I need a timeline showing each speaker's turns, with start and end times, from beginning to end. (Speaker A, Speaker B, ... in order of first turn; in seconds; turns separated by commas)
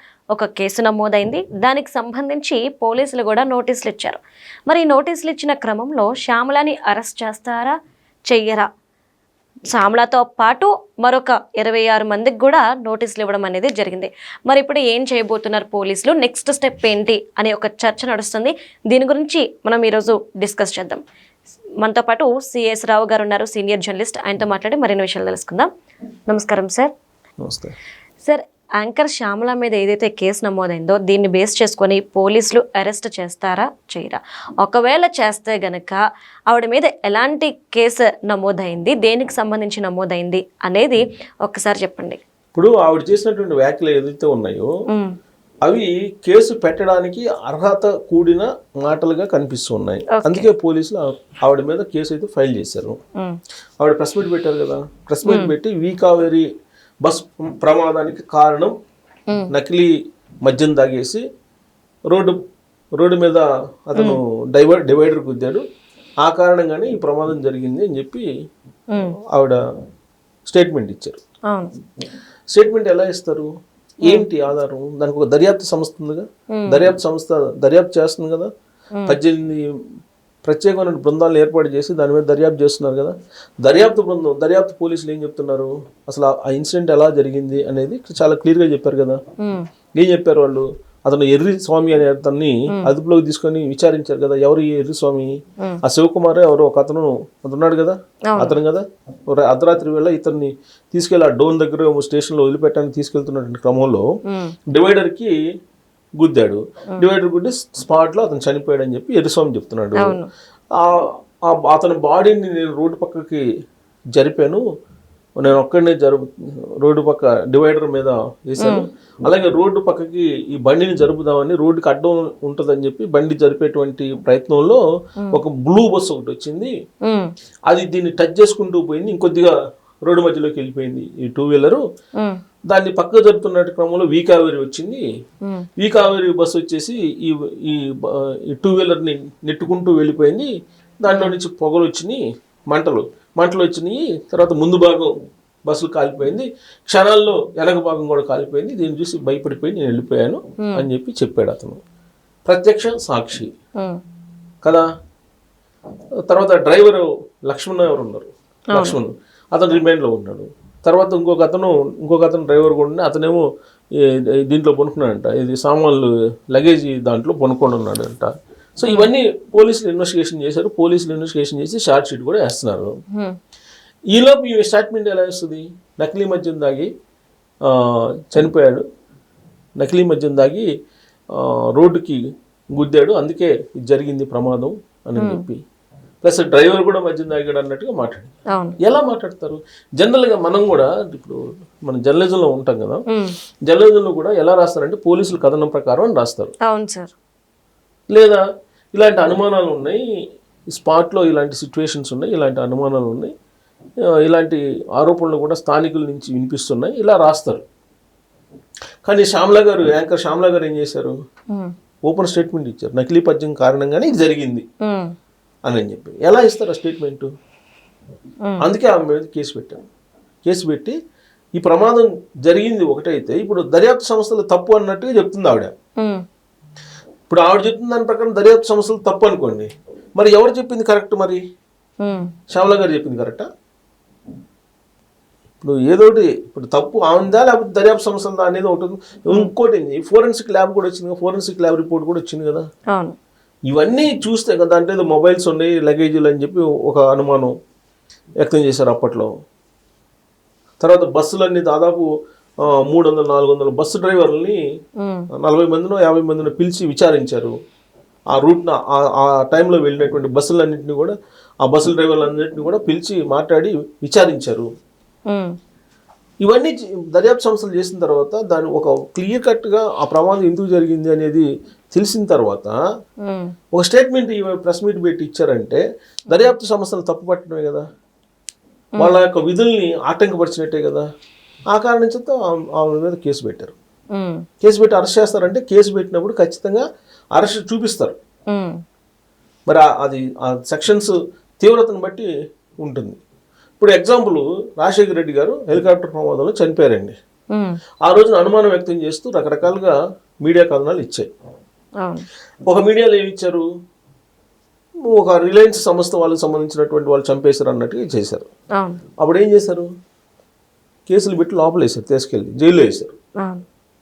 Speaker A: 0.3-7.7, Speaker A: 8.3-8.7, Speaker A: 9.7-21.0, Speaker A: 21.8-25.7, Speaker A: 26.3-26.9, Speaker B: 27.4-27.7, Speaker A: 28.2-42.2, Speaker B: 42.5-44.7, Speaker B: 45.6-53.0, Speaker A: 50.1-50.4, Speaker B: 53.8-56.5, Speaker A: 55.2-55.5, Speaker B: 57.0-58.7, Speaker B: 59.5-59.9, Speaker B: 60.4-61.2, Speaker B: 62.1-62.4, Speaker B: 63.0-65.6, Speaker B: 66.2-68.3, Speaker B: 69.3-69.6, Speaker B: 70.5-71.2, Speaker B: 72.5-73.5, Speaker B: 74.0-78.5, Speaker A: 76.5-76.8, Speaker B: 79.1-79.7, Speaker B: 80.4-89.2, Speaker B: 89.9-104.0, Speaker A: 98.3-98.6, Speaker B: 104.7-105.3, Speaker B: 106.2-110.2, Speaker A: 110.0-110.3, Speaker B: 110.8-113.4, Speaker B: 114.1-114.6, Speaker B: 115.4-116.3, Speaker B: 116.8-124.8, Speaker A: 118.6-118.9, Speaker B: 125.3-126.7, Speaker B: 127.7-129.5, Speaker B: 130.1-131.8, Speaker B: 132.7-135.0, Speaker B: 135.8-145.1, Speaker A: 141.1-141.3, Speaker B: 145.7-151.8, Speaker B: 152.4-153.5, Speaker B: 156.3-163.4, Speaker A: 158.7-159.0, Speaker B: 163.9-172.9, Speaker B: 174.1-176.9, Speaker B: 177.6-178.8, Speaker B: 179.8-180.7, Speaker B: 181.3-182.2, Speaker B: 182.7-185.6, Speaker A: 185.2-185.4, Speaker B: 186.2-193.0, Speaker A: 188.5-188.8, Speaker B: 193.7-196.5, Speaker A: 196.7-197.1, Speaker B: 198.1-198.4, Speaker B: 198.9-200.0, Speaker B: 200.7-203.3, Speaker B: 204.0-207.6, Speaker B: 209.0-211.1, Speaker B: 212.1-214.6, Speaker A: 214.8-215.1, Speaker B: 215.7-217.3, Speaker B: 218.6-219.8, Speaker B: 220.4-220.9, Speaker B: 221.6-225.7, Speaker B: 227.3-231.4, Speaker A: 232.0-232.3, Speaker B: 232.5-233.4, Speaker B: 235.6-242.6, Speaker B: 243.7-247.5, Speaker B: 248.4-249.3, Speaker B: 250.8-252.1, Speaker B: 252.6-254.6, Speaker A: 255.0-255.3, Speaker B: 255.3-257.5, Speaker B: 258.3-264.7, Speaker A: 265.3-265.6, Speaker B: 266.4-272.7, Speaker A: 273.2-273.5, Speaker B: 273.7-277.8, Speaker B: 279.0-281.0, Speaker B: 281.7-283.7, Speaker A: 284.1-284.4, Speaker B: 284.6-286.8, Speaker B: 287.3-288.1, Speaker A: 288.5-288.8, Speaker B: 289.7-292.3, Speaker B: 292.8-293.2, Speaker B: 293.8-297.1, Speaker A: 297.5-297.8, Speaker B: 298.0-301.3, Speaker B: 302.6-303.6, Speaker B: 305.0-308.4, Speaker B: 309.2-309.9, Speaker B: 311.1-313.1